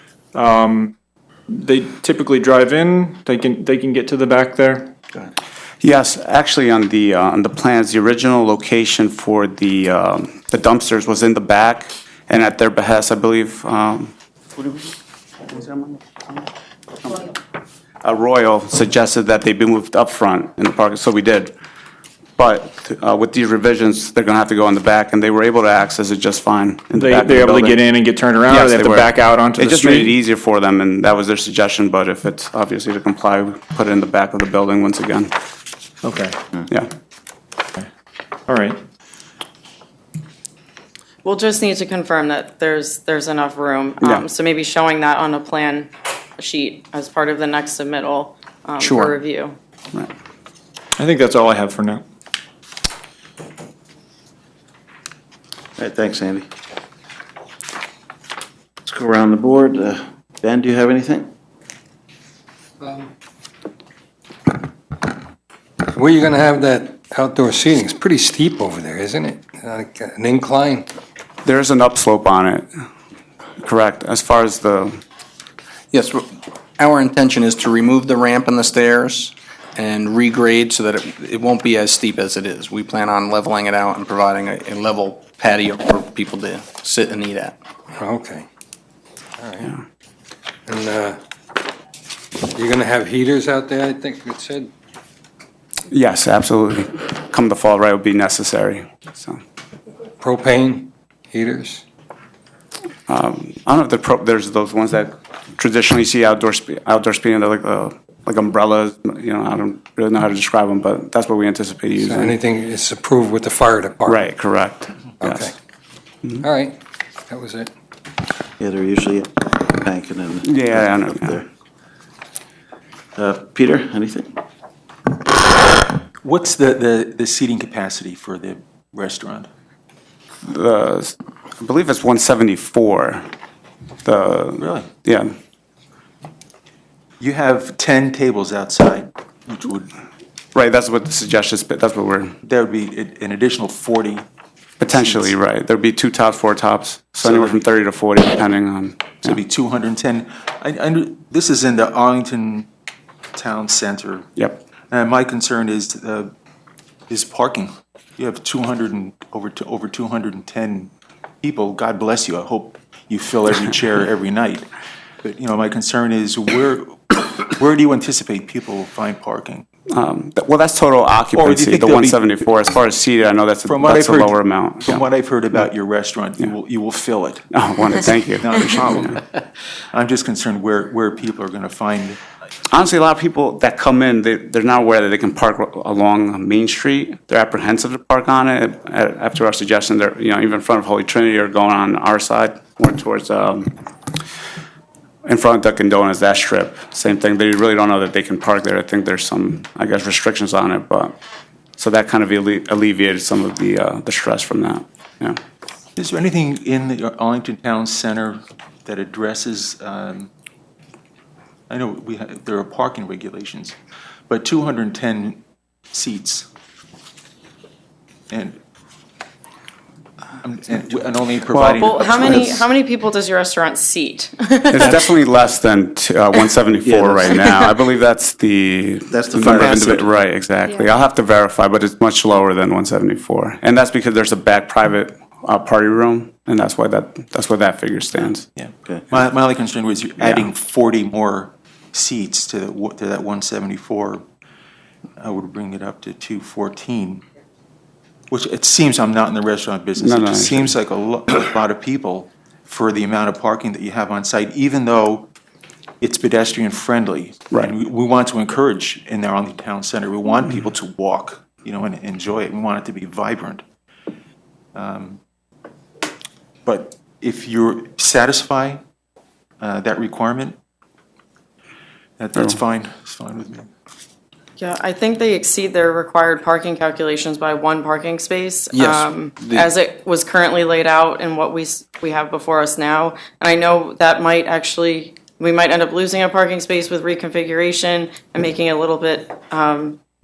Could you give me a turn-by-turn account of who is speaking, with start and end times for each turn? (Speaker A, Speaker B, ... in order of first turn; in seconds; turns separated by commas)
Speaker A: 0.3-0.9, Speaker A: 1.5-4.9, Speaker B: 5.8-14.9, Speaker B: 15.5-16.4, Speaker B: 17.0-17.3, Speaker B: 18.0-21.5, Speaker B: 22.4-27.8, Speaker A: 26.9-30.1, Speaker B: 28.4-35.3, Speaker A: 36.0-36.4, Speaker A: 38.5-38.8, Speaker C: 41.2-49.5, Speaker D: 48.8-49.1, Speaker A: 51.0-52.0, Speaker E: 55.8-56.5, Speaker E: 58.8-61.3, Speaker F: 62.8-63.1, Speaker F: 65.8-70.9, Speaker B: 71.4-72.7, Speaker B: 73.6-75.0, Speaker D: 75.9-76.3, Speaker D: 76.8-87.5, Speaker F: 87.9-88.5, Speaker F: 89.4-89.8, Speaker F: 90.7-91.2, Speaker F: 92.4-94.7, Speaker B: 95.9-99.4, Speaker F: 100.2-101.8, Speaker B: 103.1-112.3, Speaker F: 112.0-114.2, Speaker B: 114.0-115.5, Speaker F: 115.2-115.5, Speaker F: 116.3-117.7, Speaker E: 118.6-121.4, Speaker B: 120.4-121.4, Speaker E: 123.2-124.3, Speaker G: 126.2-129.5, Speaker B: 130.5-133.2, Speaker B: 134.0-135.3, Speaker G: 134.6-134.9, Speaker G: 137.2-139.9, Speaker B: 140.5-142.3, Speaker G: 142.4-144.2, Speaker B: 144.8-149.4, Speaker G: 144.9-145.3, Speaker G: 147.2-147.5, Speaker G: 149.2-152.7, Speaker G: 153.3-154.3, Speaker G: 154.9-156.3, Speaker G: 157.1-160.9, Speaker G: 161.4-164.7, Speaker G: 165.2-169.6, Speaker B: 169.9-175.0, Speaker G: 171.3-172.3, Speaker G: 173.7-177.5, Speaker B: 177.5-179.2, Speaker G: 178.4-179.4, Speaker G: 179.9-182.2, Speaker B: 182.7-193.7, Speaker B: 195.2-201.1, Speaker B: 201.8-205.4, Speaker G: 205.9-210.3, Speaker G: 211.7-213.8, Speaker G: 214.3-215.4, Speaker G: 215.9-216.5, Speaker G: 218.3-218.6, Speaker G: 220.4-222.7, Speaker B: 221.5-222.4, Speaker C: 221.7-225.1, Speaker B: 224.7-238.5, Speaker E: 226.9-227.4, Speaker E: 229.1-230.0, Speaker G: 229.5-229.9, Speaker G: 238.6-244.2, Speaker B: 240.2-240.4, Speaker G: 245.2-247.2, Speaker G: 248.3-255.3, Speaker B: 250.0-250.7, Speaker G: 256.0-263.6, Speaker G: 264.7-265.2, Speaker G: 266.6-268.8, Speaker G: 269.6-270.6, Speaker G: 272.2-273.7, Speaker C: 274.6-290.0, Speaker D: 278.7-279.7